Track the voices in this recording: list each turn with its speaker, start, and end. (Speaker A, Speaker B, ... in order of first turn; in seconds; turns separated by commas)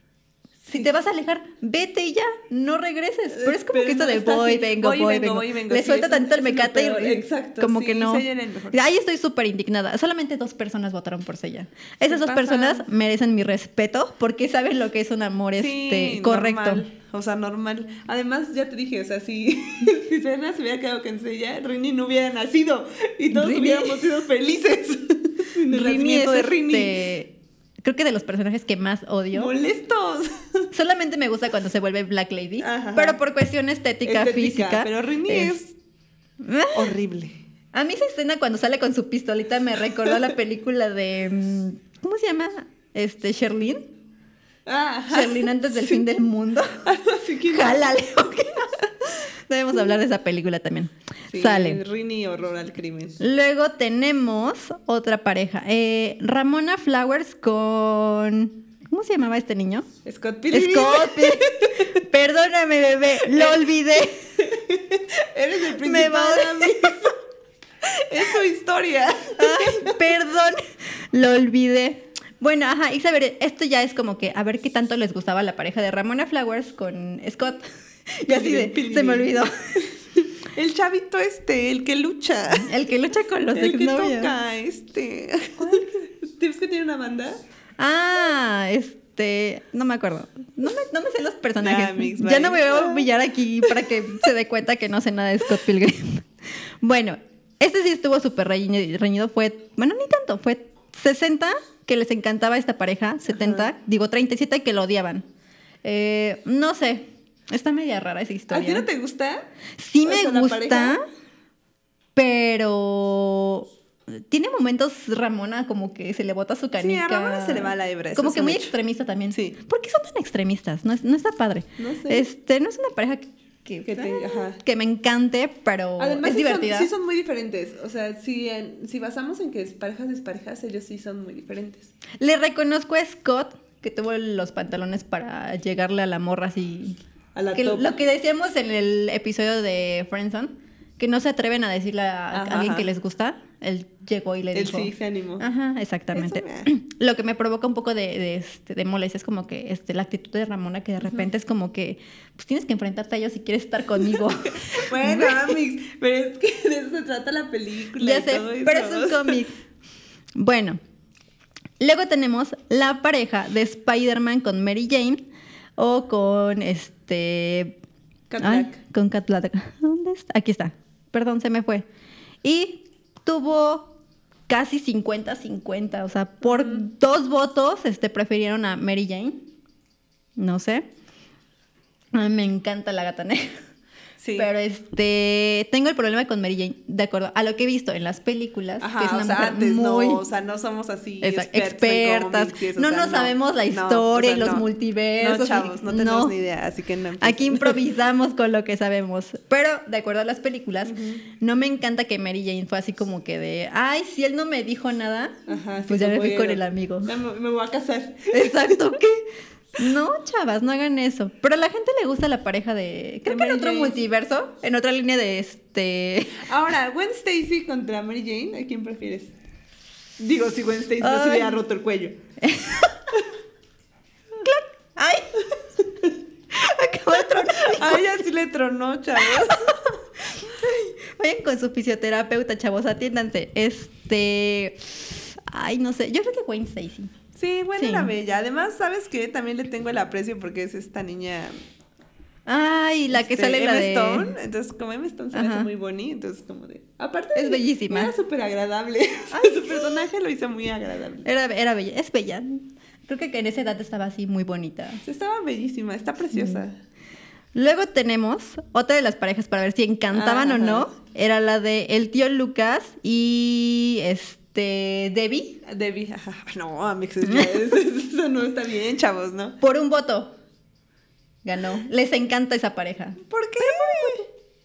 Speaker A: 0.6-0.9, Speaker B: 0.7-16.8, Speaker A: 3.3-8.8, Speaker A: 12.0-12.8, Speaker A: 15.6-27.0, Speaker B: 23.3-24.1, Speaker B: 25.7-29.5, Speaker A: 29.3-30.7, Speaker B: 30.7-35.6, Speaker A: 32.6-33.2, Speaker A: 34.0-35.8, Speaker B: 36.4-37.0, Speaker A: 36.7-37.4, Speaker B: 37.7-43.9, Speaker A: 44.6-46.0, Speaker B: 45.1-46.9, Speaker A: 46.8-47.9, Speaker B: 47.5-48.8, Speaker B: 49.3-51.8, Speaker A: 51.3-53.2, Speaker B: 53.2-59.9, Speaker A: 60.0-62.0, Speaker B: 60.5-64.3, Speaker A: 63.2-63.6, Speaker A: 64.4-67.2, Speaker B: 65.8-67.0, Speaker A: 67.8-70.0, Speaker B: 69.4-70.6, Speaker B: 71.1-79.5, Speaker A: 78.3-79.9, Speaker A: 80.5-82.7, Speaker B: 82.6-84.3, Speaker A: 83.5-87.4, Speaker B: 85.6-86.0, Speaker B: 87.8-96.2, Speaker A: 91.6-93.1, Speaker B: 96.8-105.2, Speaker A: 103.3-103.7, Speaker B: 105.8-108.9, Speaker A: 108.5-109.5, Speaker B: 109.8-111.0, Speaker A: 110.0-111.0, Speaker B: 112.2-126.9, Speaker A: 116.8-118.7, Speaker A: 119.3-119.5, Speaker A: 121.8-122.3, Speaker A: 123.8-124.6, Speaker A: 126.0-131.9, Speaker B: 132.2-137.0, Speaker A: 137.3-138.0, Speaker B: 137.5-155.6, Speaker A: 142.3-142.9, Speaker A: 144.5-145.5, Speaker A: 146.1-146.7, Speaker A: 154.4-159.4, Speaker B: 158.0-159.5, Speaker B: 160.4-160.8, Speaker B: 161.8-165.2, Speaker B: 165.8-167.8, Speaker A: 168.3-168.8, Speaker B: 168.4-171.9, Speaker B: 172.4-173.9, Speaker B: 174.5-179.5, Speaker A: 176.4-176.8, Speaker B: 180.4-180.8, Speaker B: 182.1-183.6, Speaker A: 184.2-184.5, Speaker B: 184.4-190.2, Speaker A: 188.8-194.7, Speaker B: 191.2-196.3, Speaker A: 195.2-197.8, Speaker B: 197.2-207.1, Speaker A: 200.8-201.2, Speaker A: 205.5-209.0, Speaker B: 208.3-209.3, Speaker B: 209.8-216.4, Speaker A: 213.2-214.0, Speaker A: 216.4-219.3, Speaker A: 220.2-222.2, Speaker B: 221.0-221.6, Speaker B: 222.4-223.0, Speaker B: 224.4-225.4, Speaker B: 226.5-228.2, Speaker A: 227.5-229.7, Speaker B: 229.2-237.1, Speaker A: 237.3-241.6, Speaker B: 237.8-238.1, Speaker B: 242.5-244.4, Speaker A: 243.1-251.3, Speaker B: 245.3-245.7, Speaker B: 247.3-248.1, Speaker B: 249.3-250.0, Speaker B: 251.2-255.0, Speaker A: 255.0-256.8, Speaker B: 256.3-256.6, Speaker B: 257.5-265.6, Speaker A: 260.1-260.9, Speaker A: 265.6-269.6, Speaker B: 267.2-267.5, Speaker B: 269.6-270.3, Speaker B: 271.4-274.2, Speaker A: 273.2-274.2